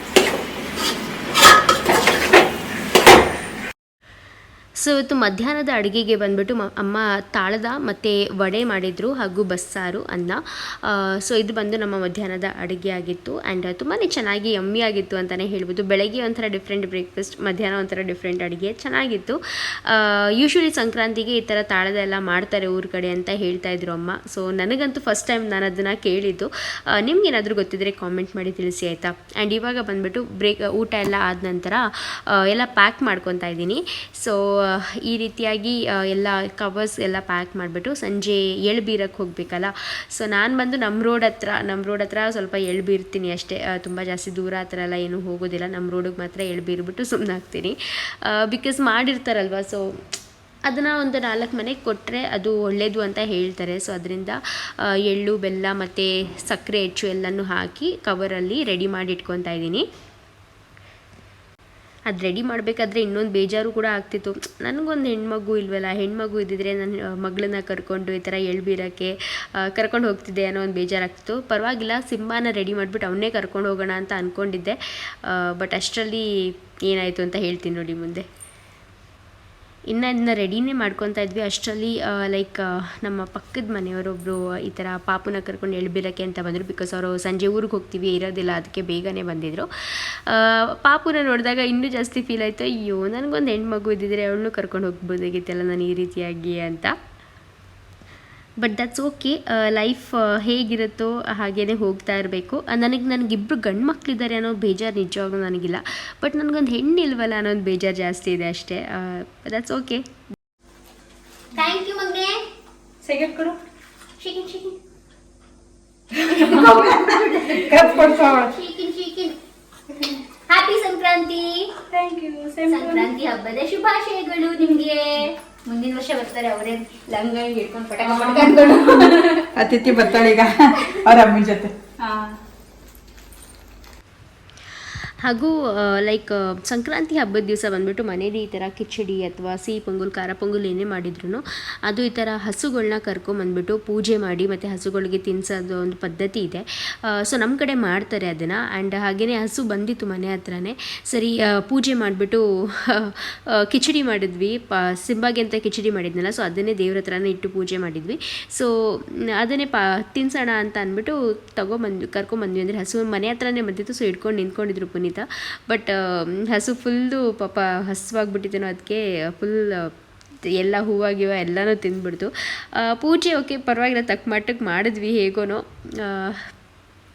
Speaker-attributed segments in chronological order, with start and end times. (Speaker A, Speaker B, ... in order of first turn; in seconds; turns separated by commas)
Speaker A: 4.8-49.9, Speaker A: 50.7-59.9, Speaker A: 62.1-74.8, Speaker A: 75.3-76.3, Speaker A: 76.9-78.3, Speaker A: 79.9-89.7, Speaker A: 90.3-96.9, Speaker A: 98.6-110.1, Speaker B: 111.5-112.4, Speaker C: 113.0-113.6, Speaker B: 114.2-114.8, Speaker B: 116.2-119.4, Speaker C: 116.3-118.6, Speaker B: 120.5-121.7, Speaker C: 121.9-123.1, Speaker B: 122.7-129.5, Speaker C: 128.3-131.7, Speaker A: 135.2-169.9, Speaker A: 170.6-172.3, Speaker A: 172.8-176.5